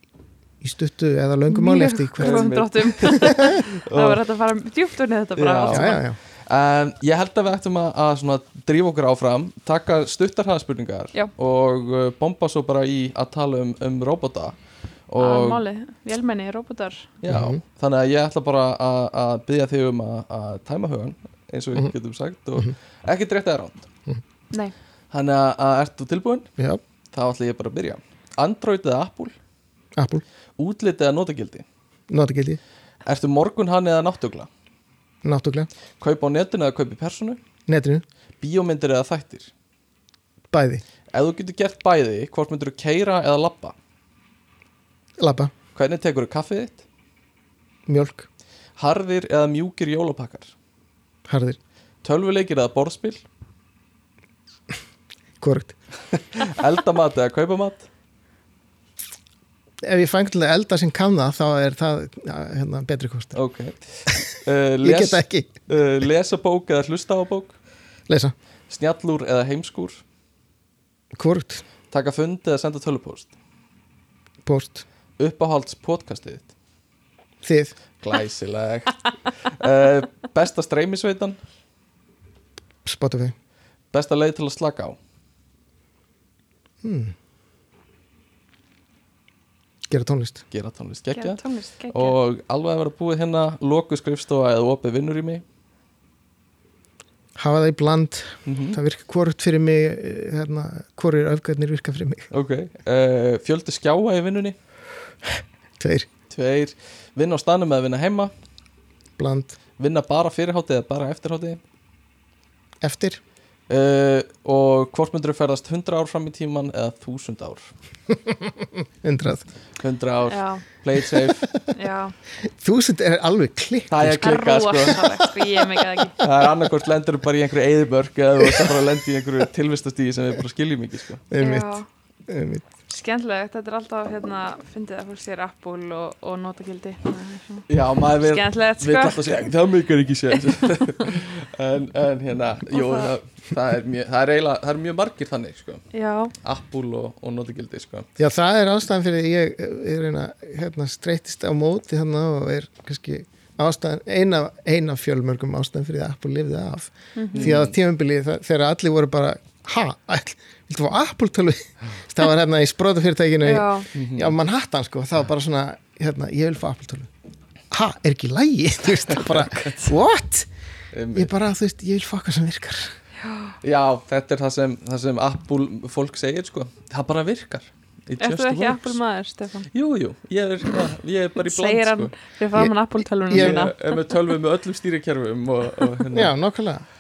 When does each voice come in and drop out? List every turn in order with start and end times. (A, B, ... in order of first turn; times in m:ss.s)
0:00.6-0:02.5 A
0:01.5-0:06.0 B
0:02.2-0:04.2 C
0:05.4-0:15.6 C
0:05.7-0:06.2 A
0:15.2-0:17.1 B
0:17.2-0:23.9 C
0:17.3-0:17.6 A
0:25.1-0:26.5 C
0:27.1-0:29.4 C
0:30.0-0:30.2 A
0:30.6-0:31.7 C
0:32.1-0:32.6 A
0:33.1-0:34.5 C
0:35.2-0:35.7 A
0:36.0-0:37.4 C
0:37.7-0:38.0 A
0:38.4-0:39.5 C
0:40.5-0:40.8 A
0:41.1-0:43.8 C
0:45.2-0:45.5 A
0:45.8-0:46.8 C
0:47.9-0:48.3 A
0:48.8-0:50.5 C
0:51.3-0:51.6 A
0:52.0-0:53.2 C
0:55.4-0:55.8 A
0:56.1-0:57.9 C
0:59.8-1:03.4 A
1:03.3-1:07.6 C
1:04.8-1:05.5 A
1:08.1-1:08.3 A
1:08.7-1:10.0 C
1:11.1-1:11.6 A
1:11.9-1:13.3 C
1:14.4-1:14.8 A
1:15.2-1:16.5 C
1:17.4-1:17.8 A
1:18.0-1:21.4 C
1:22.8-1:23.3 A
1:23.9-1:25.0 C
1:26.8-1:27.1 A
1:29.9-1:30.4 A
1:30.5-1:35.4 C
1:31.2-1:32.2 B
1:37.4-1:42.3 A
1:38.5-1:38.8 C
1:42.3-1:44.6 C
1:45.8-1:46.1 A
1:46.3-1:48.3 C
1:49.2-1:49.6 A
1:49.8-1:51.6 C
1:52.8-1:53.2 A
1:53.7-1:57.7 C
1:58.1-1:59.5 A
1:59.8-2:01.5 C
2:00.3-2:00.6 B
2:01.7-2:02.2 B
2:02.4-2:04.3 A
2:03.9-2:05.0 C
2:04.2-2:06.2 B
2:06.2-2:11.2 C
2:08.4-2:08.8 A
2:11.3-2:12.7 A
2:11.4-2:11.8 B
2:12.9-2:19.5 B
2:17.7-2:25.9 C
2:22.7-2:23.2 B
2:25.9-2:26.3 B
2:26.4-2:28.1 C
2:28.2-2:47.1 A
2:37.2-2:37.6 B
2:37.4-2:37.7 C
2:43.4-2:43.9 B
2:43.9-2:44.3 C
2:47.7-2:50.5 A
2:50.9-2:51.3 C
2:51.1-2:53.0 A
2:53.2-2:53.6 B
2:53.6-2:59.0 C
2:58.2-2:59.7 B
2:59.7-3:02.1 C
3:01.4-3:04.4 B
3:02.5-3:03.7 A
3:03.3-3:06.4 C
3:06.1-3:06.9 A